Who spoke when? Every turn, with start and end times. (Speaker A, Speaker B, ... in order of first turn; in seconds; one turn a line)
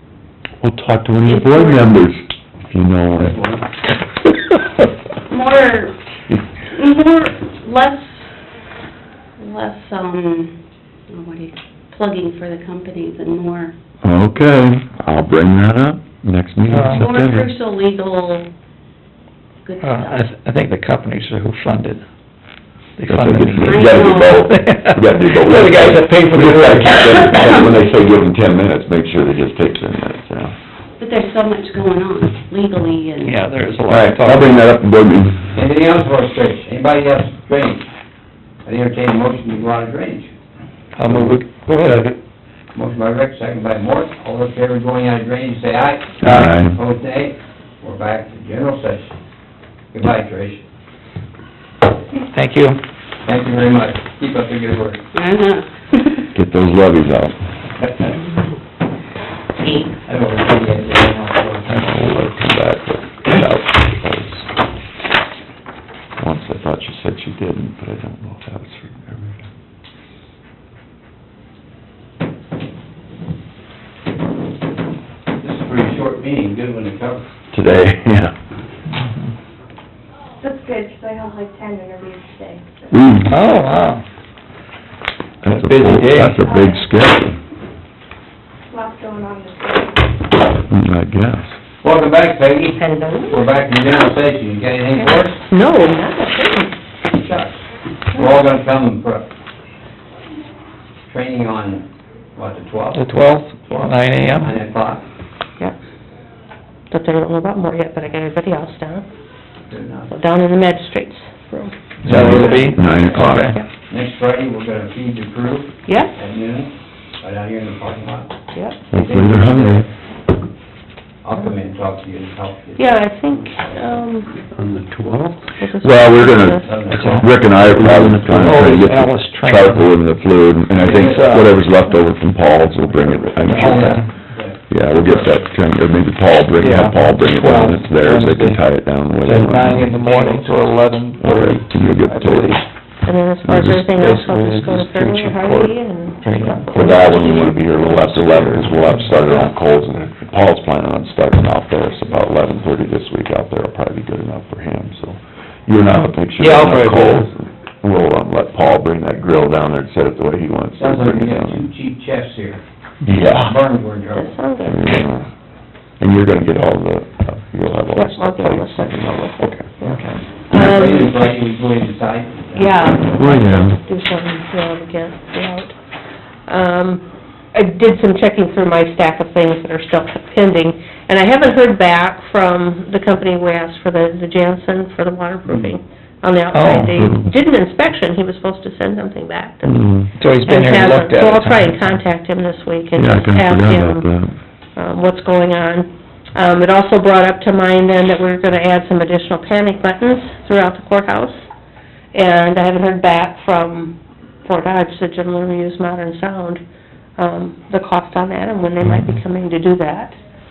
Speaker A: 0.6-3.4
Speaker B: 1.2-2.0
Speaker C: 3.2-3.6
Speaker B: 5.3-6.0
Speaker B: 6.7-8.3
Speaker B: 9.4-10.6
Speaker B: 11.1-13.7
Speaker A: 14.0-17.5
Speaker D: 16.7-17.1
Speaker B: 16.9-18.5
Speaker B: 19.6-20.3
Speaker D: 19.8-22.0
Speaker D: 23.0-27.8
Speaker A: 23.1-30.5
Speaker B: 23.6-24.5
Speaker B: 31.0-33.6
Speaker D: 33.2-34.7
Speaker A: 33.9-35.5
Speaker C: 35.5-37.9
Speaker C: 38.6-40.3
Speaker D: 41.0-42.1
Speaker C: 41.0-41.4
Speaker C: 42.7-49.1
Speaker A: 46.2-46.8
Speaker D: 46.2-46.5
Speaker C: 49.9-50.6
Speaker D: 52.3-52.8
Speaker C: 53.2-55.1
Speaker B: 55.1-56.2
Speaker A: 56.3-57.4
Speaker C: 57.8-58.1
Speaker B: 59.6-60.0
Speaker C: 60.0-61.9
Speaker A: 61.7-64.5
Speaker A: 66.2-69.5
Speaker C: 75.4-77.2
Speaker A: 77.5-78.3
Speaker D: 78.9-79.3
Speaker E: 80.4-82.9
Speaker A: 82.9-83.3
Speaker D: 83.3-84.0
Speaker A: 85.4-87.4
Speaker D: 85.5-86.4
Speaker E: 86.5-86.8
Speaker E: 88.7-90.1
Speaker A: 90.7-91.5
Speaker C: 91.8-95.4
Speaker F: 92.8-93.5
Speaker F: 94.9-96.8
Speaker C: 97.1-99.3
Speaker C: 101.1-103.0
Speaker D: 102.9-104.6
Speaker C: 103.7-105.0
Speaker F: 106.9-109.1
Speaker C: 109.7-110.2
Speaker F: 110.1-112.6
Speaker D: 112.0-113.6
Speaker A: 112.0-113.5
Speaker C: 112.1-112.7
Speaker F: 113.1-113.7
Speaker C: 113.9-118.3
Speaker F: 115.8-116.1
Speaker F: 118.5-118.8
Speaker A: 118.9-119.9
Speaker C: 118.9-119.9
Speaker C: 121.2-122.9
Speaker F: 122.8-124.3
Speaker F: 125.6-127.2
Speaker A: 125.8-134.0
Speaker C: 126.6-127.3
Speaker D: 126.9-130.0
Speaker D: 130.8-131.6
Speaker D: 133.4-134.1
Speaker C: 133.5-135.5
Speaker A: 134.7-139.9
Speaker D: 136.5-138.6
Speaker D: 139.2-142.6
Speaker C: 139.9-140.5
Speaker A: 141.2-142.6
Speaker F: 143.0-148.2
Speaker D: 143.4-149.5
Speaker A: 146.7-161.7
Speaker D: 155.9-157.3
Speaker C: 160.8-162.6
Speaker A: 163.0-163.6
Speaker C: 163.3-164.3
Speaker F: 164.1-165.1
Speaker A: 164.6-165.3
Speaker A: 166.0-169.7
Speaker F: 167.9-171.3
Speaker D: 169.9-170.2
Speaker C: 170.5-172.8
Speaker F: 172.5-175.7
Speaker A: 173.2-173.8
Speaker F: 176.5-189.8
Speaker D: 186.5-187.2
Speaker A: 187.0-187.3
Speaker A: 189.6-190.1
Speaker D: 190.2-192.0
Speaker F: 190.4-194.1
Speaker A: 192.9-194.3
Speaker F: 194.8-201.4
Speaker F: 202.1-206.6
Speaker F: 207.2-210.2
Speaker A: 208.8-209.2